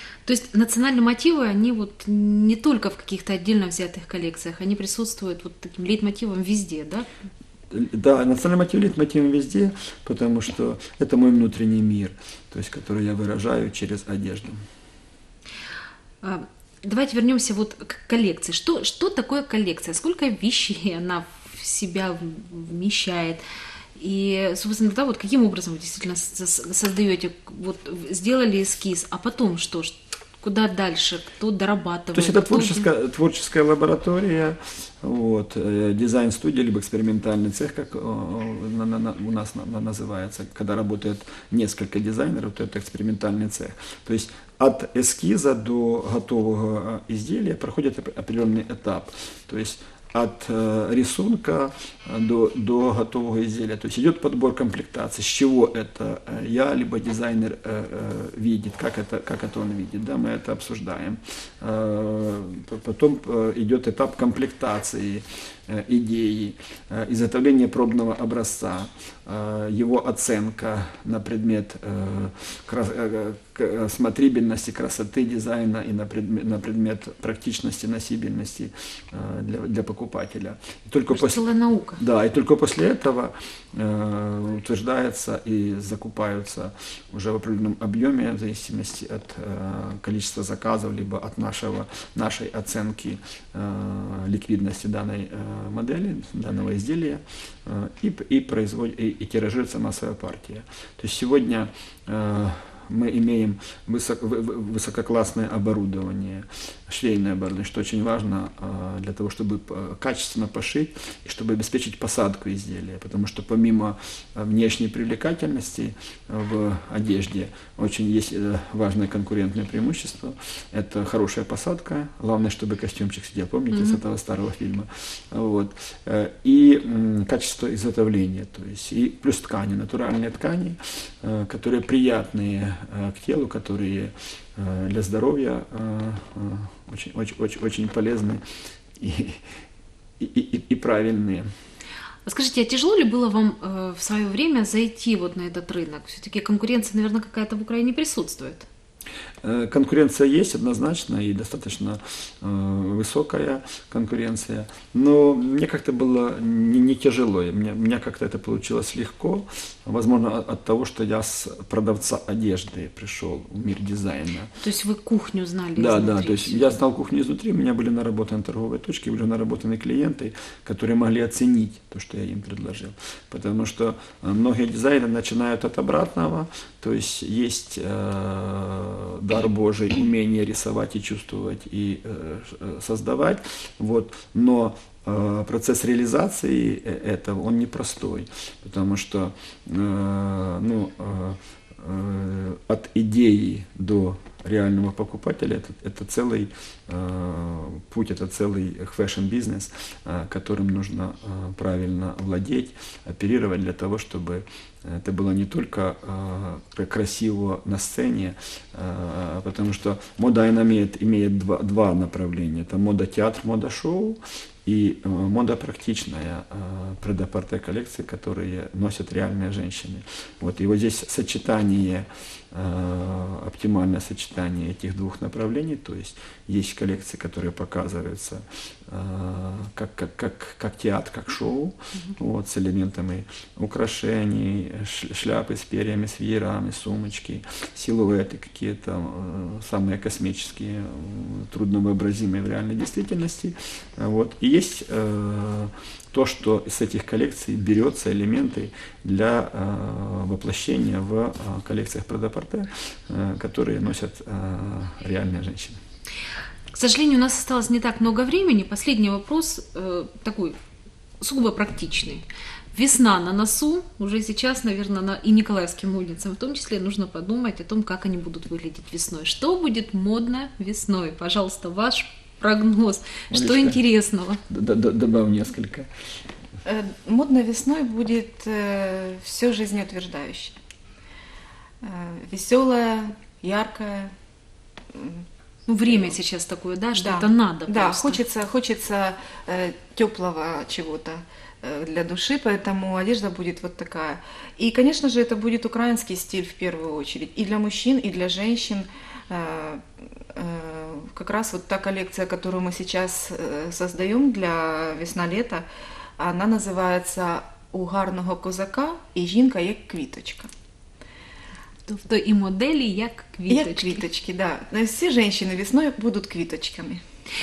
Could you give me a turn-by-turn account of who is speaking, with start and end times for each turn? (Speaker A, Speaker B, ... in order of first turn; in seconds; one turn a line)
Speaker A: 0.2-7.1
Speaker B: 7.7-14.6
Speaker A: 16.2-23.4
Speaker A: 24.0-32.9
Speaker B: 32.1-81.4
Speaker A: 81.1-82.0
Speaker B: 82.0-138.4
Speaker A: 123.7-124.0
Speaker B: 139.0-139.4
Speaker B: 140.2-141.5
Speaker A: 142.2-148.7
Speaker B: 149.4-164.5
Speaker A: 164.6-166.8
Speaker B: 165.8-255.8
Speaker A: 256.7-260.6
Speaker A: 261.2-274.4
Speaker B: 273.3-273.8
Speaker B: 274.5-275.9
Speaker C: 276.6-280.6
Speaker C: 281.8-284.1
Speaker C: 284.9-285.2
Speaker A: 285.7-288.2
Speaker C: 285.9-286.1
Speaker C: 287.0-305.6
Speaker C: 306.2-310.5
Speaker A: 311.9-314.0
Speaker C: 313.5-317.0